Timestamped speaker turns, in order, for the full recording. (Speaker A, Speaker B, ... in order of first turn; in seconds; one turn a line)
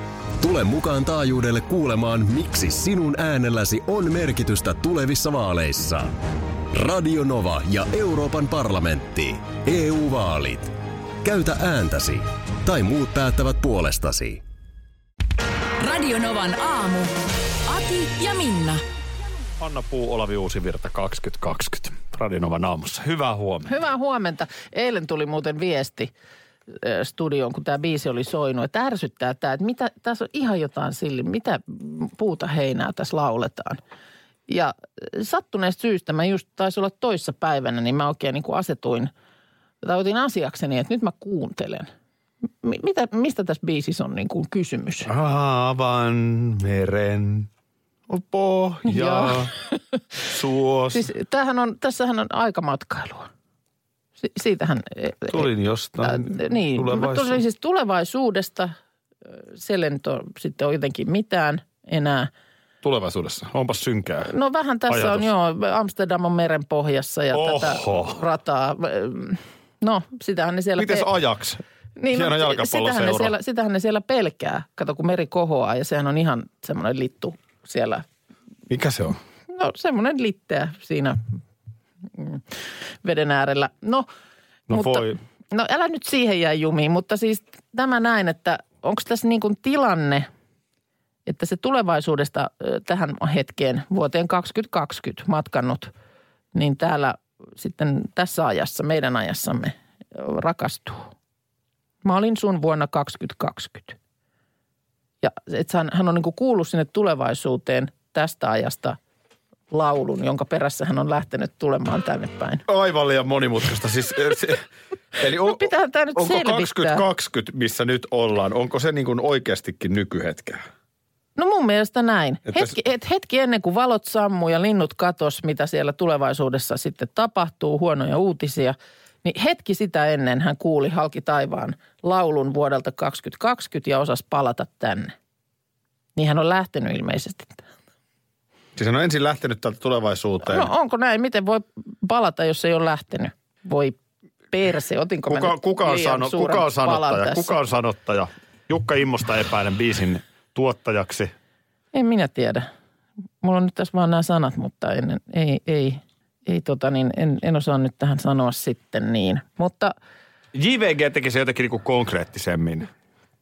Speaker A: 0.4-6.1
Speaker A: 6.7-14.4
Speaker B: 15.8-17.1
Speaker B: 17.7-18.8
Speaker C: 19.6-23.8
Speaker D: 23.7-26.1
Speaker D: 26.7-33.8
Speaker D: 34.5-39.1
Speaker D: 39.8-41.9
Speaker D: 42.6-45.1
Speaker C: 45.1-47.5
Speaker C: 48.1-49.5
Speaker D: 48.9-49.6
Speaker C: 50.3-51.1
Speaker D: 50.9-53.3
Speaker D: 54.2-55.5
Speaker C: 55.3-57.4
Speaker D: 56.0-58.8
Speaker D: 59.5-62.3
Speaker C: 62.8-64.3
Speaker D: 64.2-71.1
Speaker C: 64.9-65.3
Speaker C: 67.3-68.2
Speaker C: 70.8-73.3
Speaker D: 72.0-78.0
Speaker C: 78.7-79.2
Speaker D: 79.5-81.2
Speaker D: 82.2-82.4
Speaker D: 83.0-84.1
Speaker C: 84.7-85.2
Speaker D: 84.7-90.3
Speaker D: 91.3-95.9
Speaker D: 96.5-101.1
Speaker D: 102.0-104.0
Speaker D: 105.2-109.0
Speaker D: 109.7-112.6
Speaker C: 112.7-114.7
Speaker C: 115.2-120.6
Speaker D: 115.2-117.0
Speaker D: 121.4-135.1
Speaker C: 122.5-122.8
Speaker D: 136.2-137.7
Speaker C: 138.8-140.7
Speaker D: 140.4-144.0
Speaker D: 144.5-147.5
Speaker C: 145.3-151.3
Speaker D: 151.9-152.7
Speaker D: 153.4-159.9
Speaker C: 160.5-162.9